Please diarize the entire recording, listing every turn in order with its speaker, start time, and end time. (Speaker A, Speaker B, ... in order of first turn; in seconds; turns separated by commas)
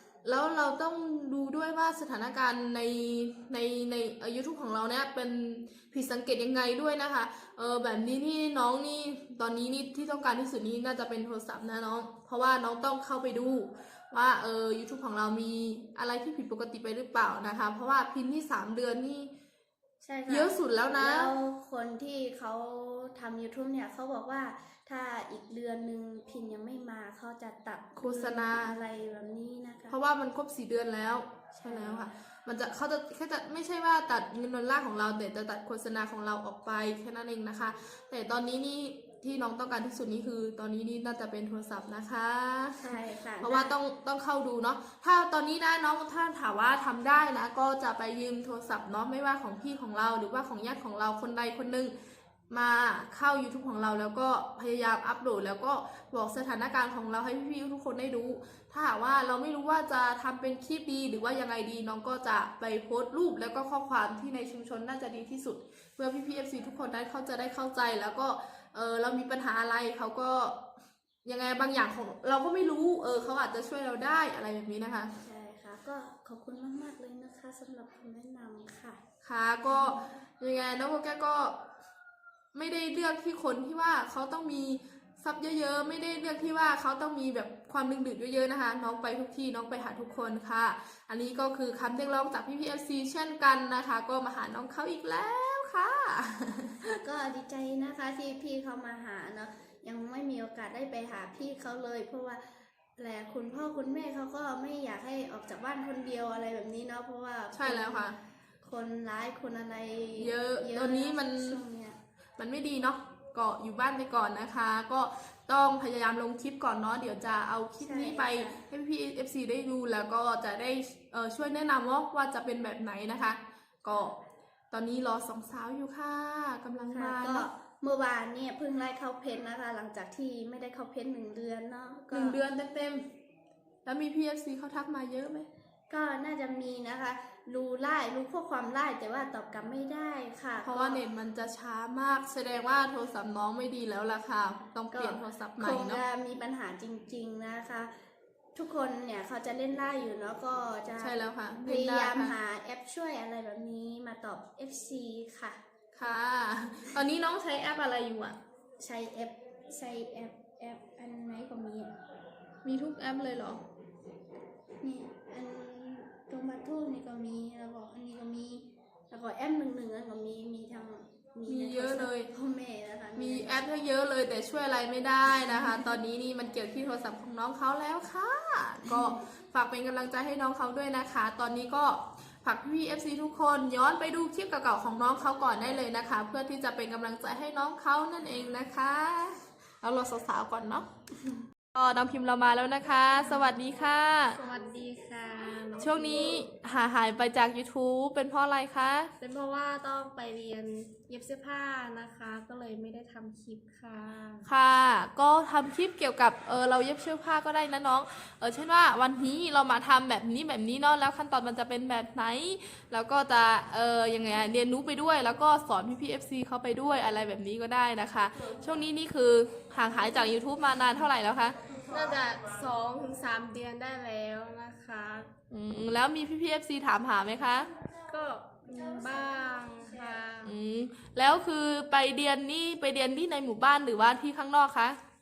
Speaker A: 0.2-19.3, Speaker B: 20.0-29.9, Speaker A: 20.3-21.3, Speaker A: 27.9-28.8, Speaker A: 29.9-51.9, Speaker B: 31.6-32.1, Speaker B: 42.8-43.8, Speaker A: 52.5-70.6, Speaker A: 71.2-75.1, Speaker B: 75.2-79.0, Speaker A: 79.2-81.6, Speaker A: 82.5-96.9, Speaker B: 97.0-112.0, Speaker A: 107.5-108.2, Speaker A: 110.2-111.6, Speaker A: 112.4-124.2, Speaker B: 117.8-118.6, Speaker A: 124.7-127.5, Speaker B: 126.9-132.4, Speaker A: 132.1-133.0, Speaker A: 133.8-135.5, Speaker B: 135.9-141.0, Speaker A: 140.6-146.0, Speaker B: 144.9-147.9, Speaker B: 148.5-155.6, Speaker A: 151.0-152.4, Speaker A: 155.9-158.4, Speaker B: 158.8-161.9, Speaker A: 162.6-163.6, Speaker B: 164.8-173.6, Speaker A: 171.5-172.3, Speaker A: 173.2-190.9, Speaker B: 178.8-179.2, Speaker A: 191.7-194.4, Speaker C: 194.3-196.5, Speaker A: 195.8-199.1, Speaker C: 199.2-204.5, Speaker A: 204.4-221.6, Speaker C: 221.8-225.3, Speaker A: 225.5-227.7, Speaker C: 228.0-230.5, Speaker A: 230.4-235.0